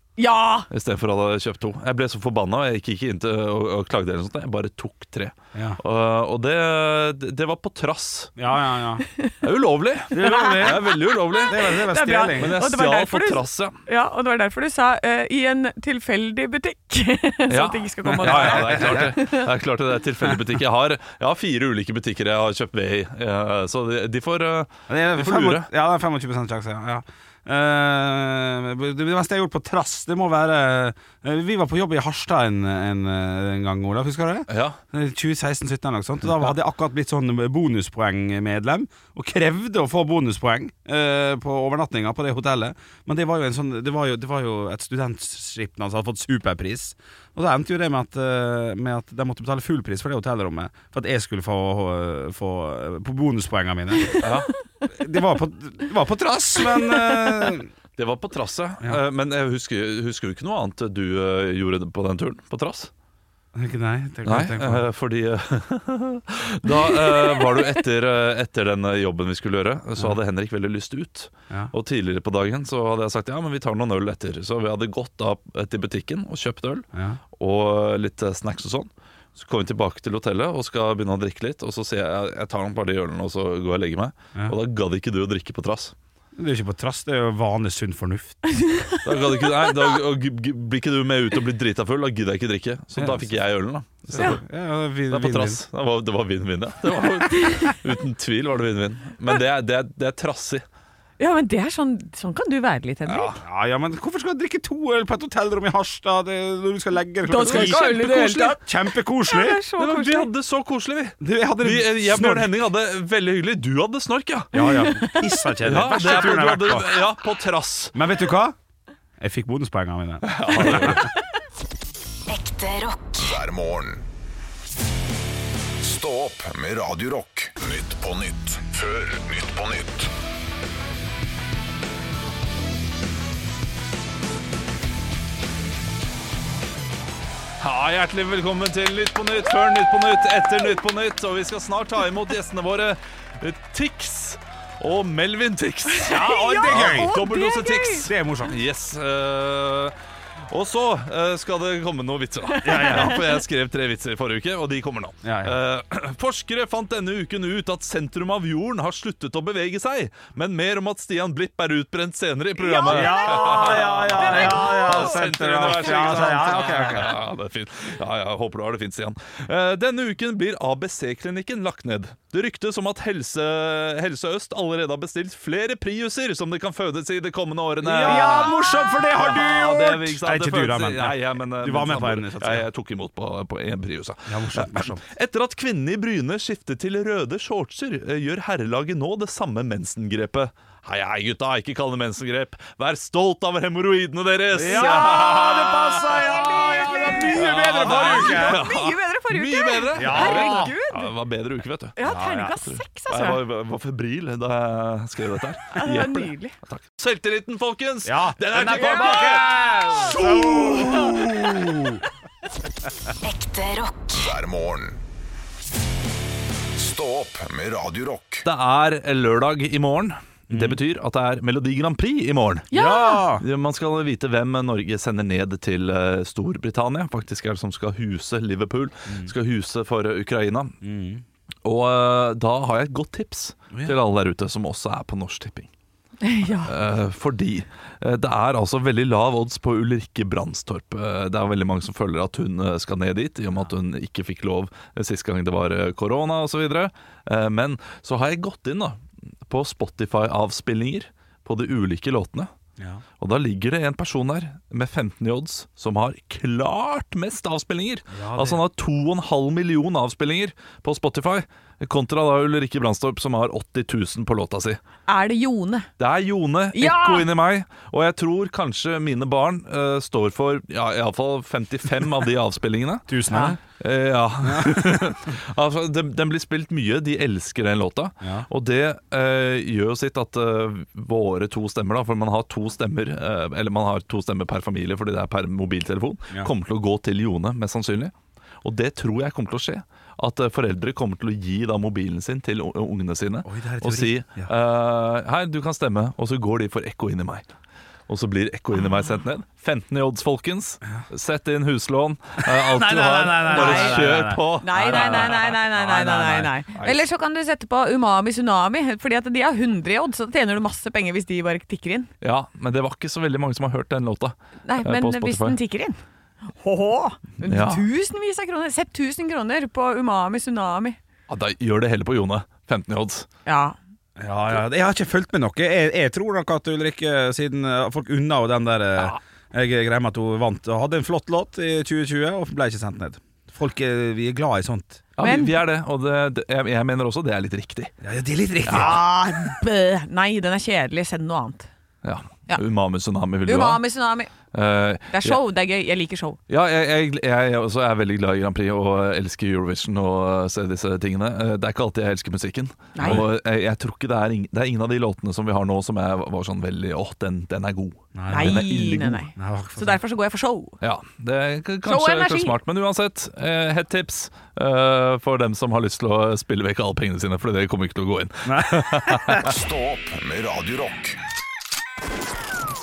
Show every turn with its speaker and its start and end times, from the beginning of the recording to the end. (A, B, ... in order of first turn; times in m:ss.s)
0:00.2-0:00.7 A
0:00.7-0:08.4 B
0:05.5-0:05.8 C
0:08.4-0:09.0 C
0:09.4-0:11.7 B
0:10.1-0:12.6 C
0:10.2-0:19.4 A
0:12.3-0:13.8 B
0:17.5-0:25.7 B
0:18.2-0:19.2 C
0:24.9-0:57.7 C
0:34.5-0:34.8 B
0:54.2-0:54.5 B
0:58.0-1:02.9 B
1:03.5-1:04.8 C
1:04.2-1:25.9 B
1:06.9-1:07.6 A
1:16.9-1:17.2 C
1:26.4-1:28.4 C
1:28.4-1:29.4 A
1:29.0-1:34.4 B
1:33.0-1:33.3 C
1:34.1-1:35.6 C
1:35.1-1:40.6 B
1:37.3-1:37.8 A
1:41.2-1:43.4 A
1:43.0-1:43.4 B
1:43.4-1:49.6 C
1:47.3-1:50.3 A
1:47.4-1:48.5 B
1:49.8-1:54.5 B
1:51.2-1:52.5 C
1:54.5-1:57.0 C
1:54.6-1:55.4 A
1:55.6-1:58.0 B
1:57.9-1:58.6 C
1:59.2-2:01.0 C
2:00.2-2:01.1 B
2:02.3-2:03.2 D
2:03.2-2:04.0 E
2:05.8-2:10.1 E
2:17.6-2:29.9 B
2:26.0-2:28.1 A
2:26.0-2:27.2 C
2:28.0-2:28.6 C
2:30.5-3:32.0 B
2:32.6-2:33.2 A
2:32.6-2:33.2 C
2:35.2-2:35.6 C
2:42.6-2:45.2 A
2:42.8-2:47.2 C
2:57.8-3:02.7 C
3:04.3-3:05.0 C
3:14.5-3:18.6 C
3:16.2-3:21.1 A
3:19.9-3:20.7 C
3:22.0-3:23.4 A
3:22.0-3:22.6 C
3:25.8-3:26.6 A
3:28.0-3:31.9 C
3:33.2-3:34.3 D
3:34.2-3:35.0 E
3:36.8-3:38.4 E
3:38.4-3:42.7 B
3:40.5-3:40.8 C
3:42.7-3:43.2 A
3:42.7-3:43.4 C
3:43.4-3:50.7 B
3:50.8-3:51.2 C
3:51.6-3:55.7 B
3:56.2-3:56.7 A
3:56.6-4:12.5 B
4:12.8-4:13.0 C
4:13.2-4:24.8 B
4:18.1-4:18.6 C
4:25.1-4:25.9 A
4:26.0-4:33.2 B
4:26.7-4:27.3 A
4:33.1-4:33.6 C
4:33.3-4:33.6 A
4:33.8-4:57.4 B
4:34.4-4:35.1 C
4:38.2-4:38.5 C
4:53.4-4:54.5 C
4:58.1-5:05.6 B
5:02.4-5:06.5 C
5:03.4-5:12.1 A
5:06.2-5:07.0 B
5:12.2-5:15.6 B
5:14.6-5:16.0 A
5:16.6-5:21.0 A
5:17.4-5:17.8 B
5:21.3-5:23.3 B
5:23.4-5:23.8 A
5:24.2-5:35.0 C
5:35.2-5:37.9 B
5:35.2-5:35.5 A
5:38.0-5:39.0 C
5:38.6-5:41.7 A
5:38.6-5:39.0 B
5:42.0-5:43.8 B
5:43.4-5:44.3 A
5:44.5-5:45.4 B
5:45.1-5:46.4 A
5:46.5-5:59.2 B
5:52.9-5:53.2 A
5:53.0-5:53.3 C
5:58.1-5:58.7 C
5:58.3-6:00.8 A
5:59.4-6:00.0 C
6:00.8-6:09.4 B
6:01.8-6:02.5 A
6:08.4-6:09.5 C
6:09.4-6:11.2 E